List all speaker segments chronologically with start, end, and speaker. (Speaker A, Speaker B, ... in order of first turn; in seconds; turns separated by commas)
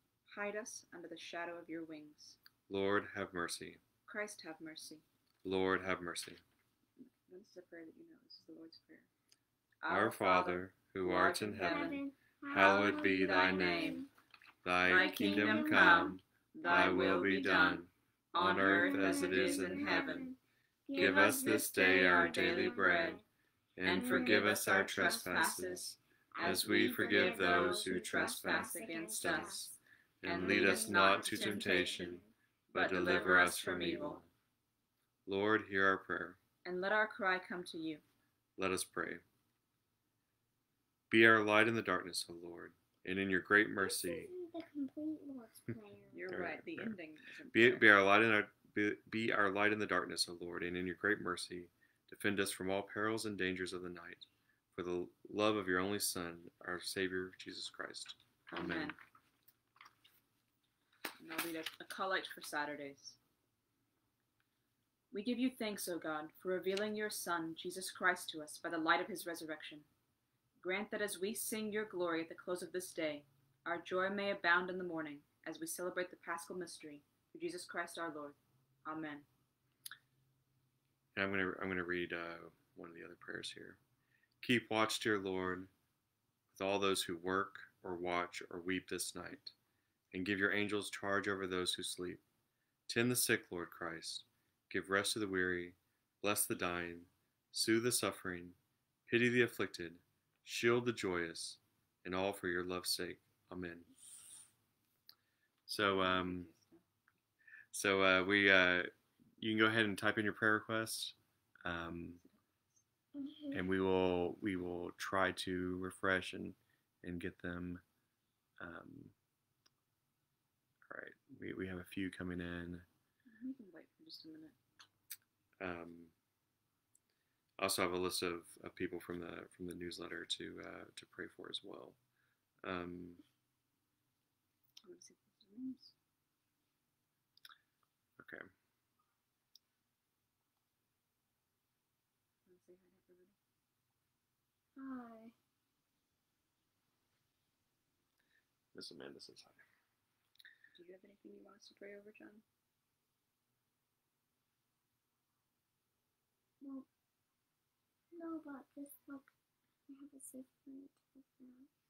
Speaker A: 0.3-2.4, Speaker B: 2.7-3.8, Speaker A: 4.0-5.0, Speaker B: 5.4-6.4, Speaker A: 7.2-9.1, Speaker A: 9.8-12.0, Speaker B: 9.9-14.1, Speaker C: 11.6-14.1, Speaker A: 12.6-14.1, Speaker B: 14.6-20.3, Speaker A: 14.8-20.4, Speaker C: 14.9-16.2, Speaker C: 16.8-17.6, Speaker C: 18.4-20.4, Speaker C: 20.9-23.2, Speaker B: 20.9-23.2, Speaker A: 20.9-23.2, Speaker B: 23.8-32.2, Speaker A: 23.8-25.9, Speaker C: 23.9-25.8, Speaker C: 26.3-29.7, Speaker A: 26.4-29.7, Speaker A: 30.2-32.1, Speaker C: 30.3-32.3, Speaker A: 32.7-34.2, Speaker B: 32.7-34.3, Speaker B: 35.2-36.4, Speaker A: 36.6-38.0, Speaker B: 38.6-39.2, Speaker B: 41.1-44.3, Speaker C: 43.8-46.3, Speaker A: 46.1-47.9, Speaker B: 46.3-47.0, Speaker B: 47.5-58.9, Speaker A: 58.5-59.0, Speaker A: 61.2-63.2, Speaker A: 65.1-69.9, Speaker A: 70.6-79.3, Speaker B: 81.2-83.8, Speaker B: 84.4-85.7, Speaker B: 86.5-89.5, Speaker B: 90.1-92.2, Speaker B: 92.9-103.9, Speaker B: 105.7-106.5, Speaker A: 105.7-106.8, Speaker B: 107.7-112.2, Speaker A: 112.1-112.8, Speaker C: 113.2-113.6, Speaker B: 113.5-117.8, Speaker B: 118.6-119.1, Speaker B: 120.9-122.9, Speaker A: 123.3-124.6, Speaker B: 125.6-126.1, Speaker B: 127.6-132.0, Speaker B: 132.6-133.2, Speaker A: 134.8-135.9, Speaker B: 138.2-138.4, Speaker A: 142.5-143.4, Speaker C: 144.8-145.3, Speaker B: 148.7-149.7, Speaker A: 150.7-152.4, Speaker C: 156.6-156.9, Speaker C: 158.1-159.3, Speaker C: 159.9-161.7